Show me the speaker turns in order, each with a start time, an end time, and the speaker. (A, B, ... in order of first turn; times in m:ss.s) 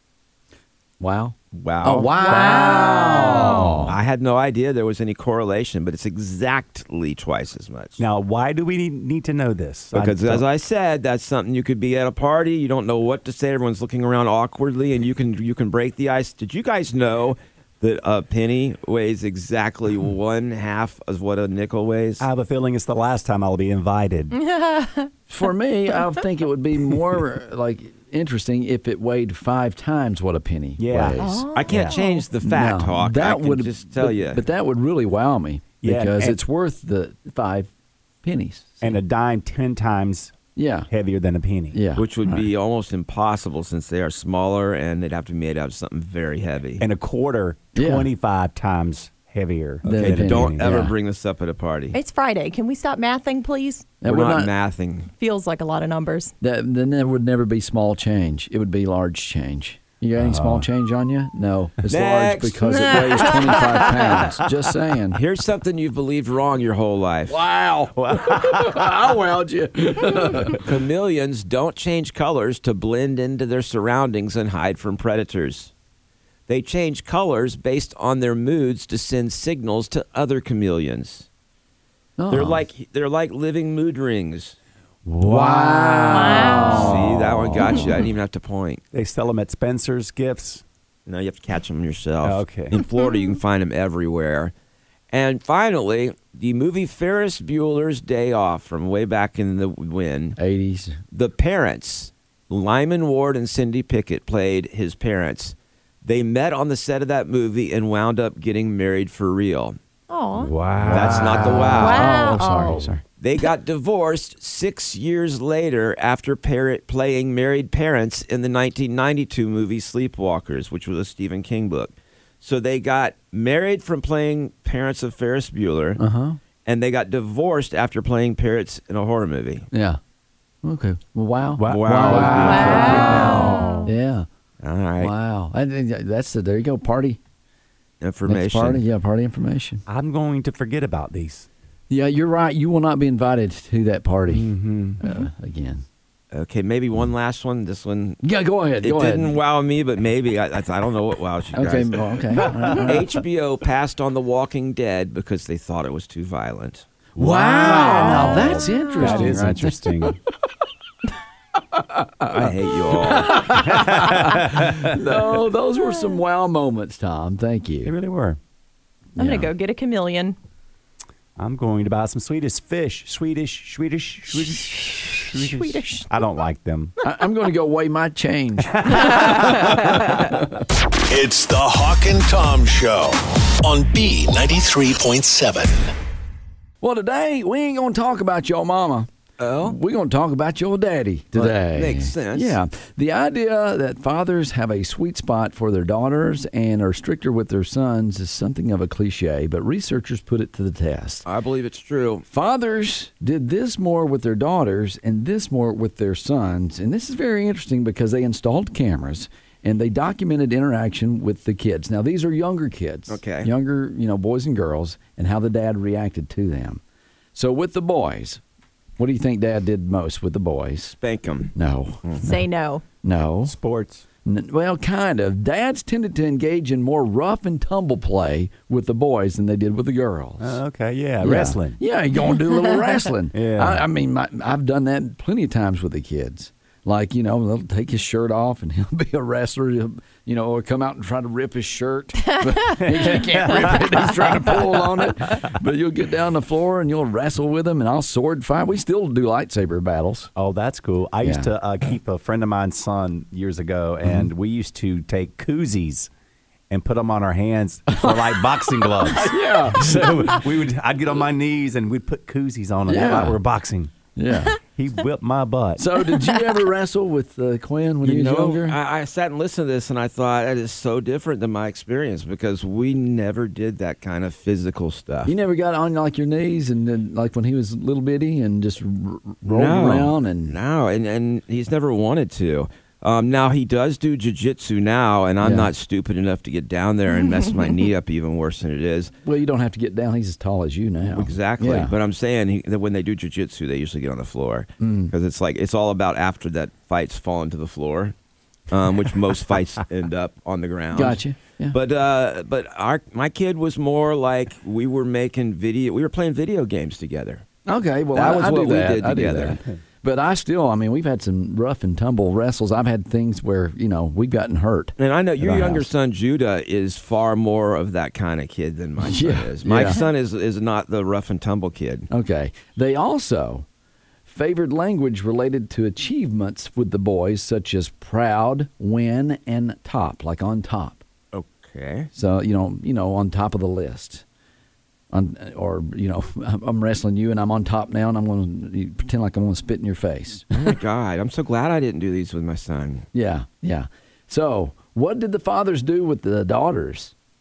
0:01.0-0:04.0 A
0:01.5-0:08.0 B
0:02.2-0:03.7 C
0:08.0-0:10.4 D
0:09.9-0:22.2 B
0:22.2-0:24.3 D
0:24.3-0:25.5 C
0:25.3-0:31.9 A
0:30.8-0:31.9 D
0:31.2-0:32.3 C
0:31.5-0:34.4 B
0:32.4-0:37.7 A
0:35.8-0:36.4 D
0:38.2-0:39.0 A
0:38.8-0:40.4 D
0:40.5-0:40.9 A
0:40.9-0:41.8 D
0:41.7-0:42.5 A
0:41.9-0:46.8 B
0:46.8-0:50.8 D
0:47.7-0:48.1 A
0:49.8-0:50.9 A
0:49.8-0:52.0 B
0:51.9-0:54.0 C
0:54.0-0:54.5 A
0:54.0-0:55.1 B
0:55.1-0:56.3 C
0:56.4-1:05.2 A
1:00.2-1:00.6 D
1:01.9-1:03.9 B
1:02.8-1:03.6 C
1:05.1-1:07.4 B
1:07.3-1:10.6 A
1:08.0-1:08.8 D
1:10.6-1:15.7 B
1:16.5-1:21.3 B
1:22.2-1:22.7 A
1:22.3-1:24.6 B
1:25.1-1:27.8 A
1:25.2-1:28.8 B
1:26.1-1:26.9 C
1:28.9-1:30.6 D
1:31.0-1:34.5 B
1:32.2-1:32.8 D
1:35.1-1:40.4 B
1:40.4-1:41.0 A
1:41.1-1:49.8 B
1:50.1-1:50.5 C
1:50.5-1:52.1 D
1:50.8-1:53.0 A
1:50.9-1:52.0 B
1:51.7-1:52.8 C
1:53.2-2:06.0 B
2:06.0-2:06.4 A
2:06.6-2:09.7 B
2:09.7-2:10.0 A
2:10.6-2:14.2 A
2:11.6-2:13.3 D
2:11.6-2:13.8 B
2:12.4-2:13.9 C
2:14.6-2:15.1 B
2:15.0-2:17.2 A
2:18.0-2:18.8 B
2:18.2-2:19.8 A
2:19.9-2:21.5 D
2:21.9-2:25.8 A
2:24.3-2:25.0 D
2:26.3-2:28.2 B
2:28.2-2:29.4 A
2:28.8-2:36.8 B
2:31.5-2:33.1 A
2:32.4-2:32.8 D
2:37.2-2:40.2 D
2:37.2-2:40.1 A
2:37.8-2:39.2 C
2:42.3-2:43.5 B
2:43.0-2:47.9 A
2:43.6-2:44.9 D
2:45.8-2:46.2 C
2:47.8-2:48.4 D
2:49.2-2:50.4 C
2:51.4-2:56.9 D
2:55.2-2:56.2 C
2:57.0-2:59.4 A
2:58.7-2:59.5 D
2:59.0-3:00.0 C
3:01.1-3:05.8 E
3:06.8-3:09.1 A
3:09.4-3:09.8 B
3:09.6-3:21.2 A
3:11.3-3:12.6 B
3:21.2-3:22.2 B
3:22.3-3:36.8 A
3:33.1-3:33.5 B
3:37.3-3:38.4 A
3:39.0-3:41.0 A
3:41.0-3:42.2 B
3:41.5-3:42.4 A
3:42.2-3:42.8 C
3:43.0-3:43.5 A
3:43.4-3:44.0 D
3:44.2-3:50.6 A
3:50.4-3:51.8 D
3:51.2-4:10.3 A
3:53.3-3:53.9 D
4:02.8-4:05.1 D
4:10.3-4:16.1 D
4:11.2-4:11.5 A
4:14.0-4:14.3 A
4:16.7-4:23.9 D
4:17.9-4:20.4 A
4:22.9-4:23.4 A
4:24.2-4:24.5 A
4:24.5-4:25.8 D
4:25.8-4:28.8 A
4:28.0-4:35.3 B
4:35.2-4:40.6 A
4:39.4-4:49.1 B
4:45.4-4:45.7 A
4:47.2-4:47.7 C
4:49.2-4:51.9 A
4:51.1-4:58.1 B
4:54.8-4:55.1 A
4:58.7-5:07.4 B
5:00.9-5:01.8 A
5:07.6-5:15.9 A
5:08.1-5:09.6 B
5:15.0-5:22.1 B
5:19.0-5:20.0 A
5:22.1-5:23.6 A
5:24.3-5:31.0 A
5:31.3-5:32.1 B
5:32.1-5:34.2 A
5:35.1-5:40.5 A
5:40.5-5:43.0 B
5:43.1-5:47.1 A